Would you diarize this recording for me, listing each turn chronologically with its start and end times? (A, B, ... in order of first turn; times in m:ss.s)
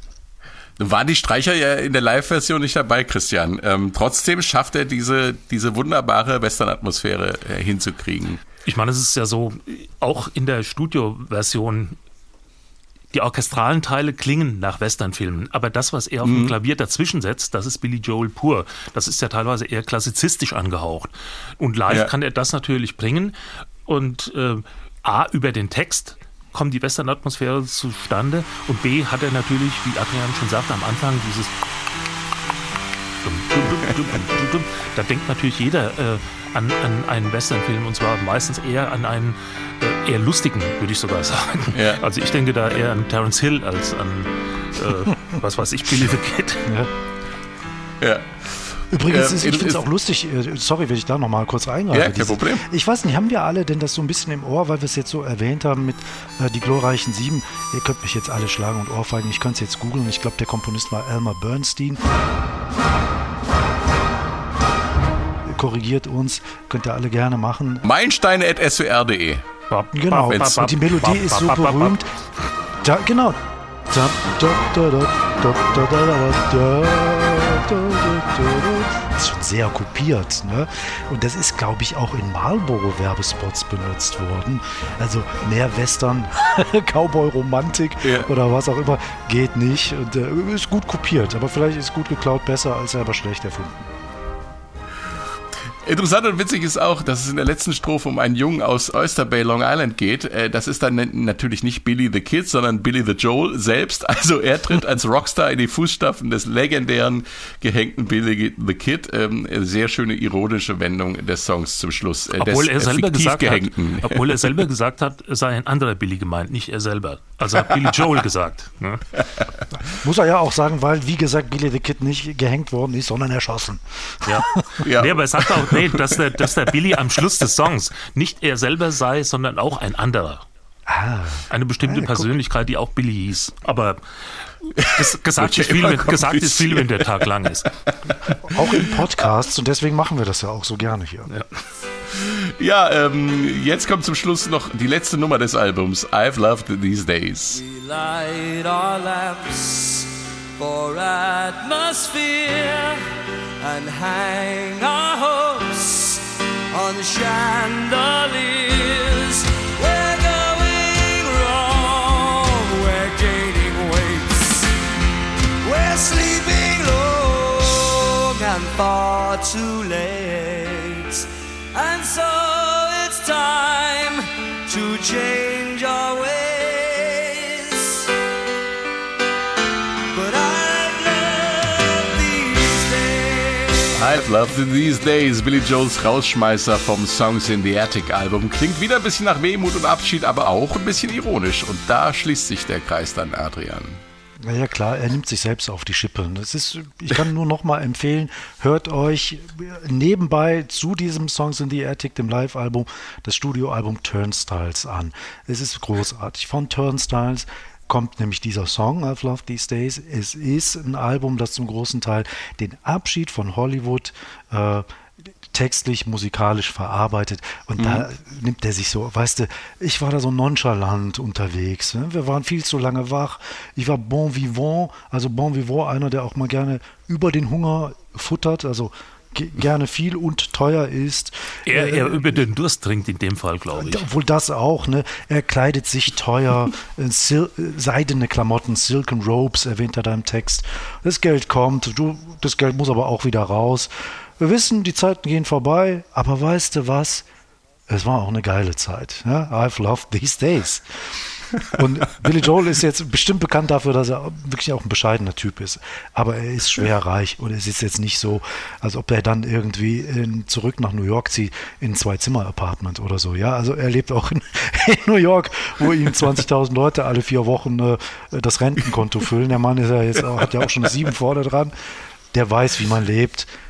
0:00.8-0:08.4 A
0:08.6-0:12.0 B
0:13.1-0:23.3 B
0:16.2-0:16.5 A
0:23.9-0:31.5 B
0:33.2-0:46.6 B
0:41.7-0:42.0 A
0:48.0-0:49.8 A
0:48.9-1:02.1 C
0:51.9-0:52.6 A
1:05.4-1:07.8 C
1:07.8-1:09.5 A
1:09.7-1:12.0 B
1:09.9-1:12.1 C
1:12.8-1:33.9 C
1:28.0-1:28.3 A
1:35.8-1:54.6 A
1:52.4-1:59.1 B
1:59.2-1:59.4 A
1:59.9-2:04.8 C
2:04.3-2:10.5 B
2:04.8-2:06.2 A
2:10.9-2:12.3 C
2:11.5-2:14.0 B
2:14.6-2:17.7 B
2:14.8-2:17.2 A
2:17.9-2:18.9 A
2:18.4-2:21.3 C
2:22.1-2:27.6 A
2:27.5-2:33.1 D
2:33.6-2:44.7 D
2:45.6-2:58.1 D
3:00.1-3:04.0 D
3:04.0-3:14.0 A
3:14.4-3:34.9 C
3:35.5-3:52.4 C
3:37.8-3:38.1 A
3:51.7-3:54.0 B
3:53.8-4:07.2 C
4:07.9-4:10.9 C
4:11.6-4:31.7 C
4:32.3-4:33.5 C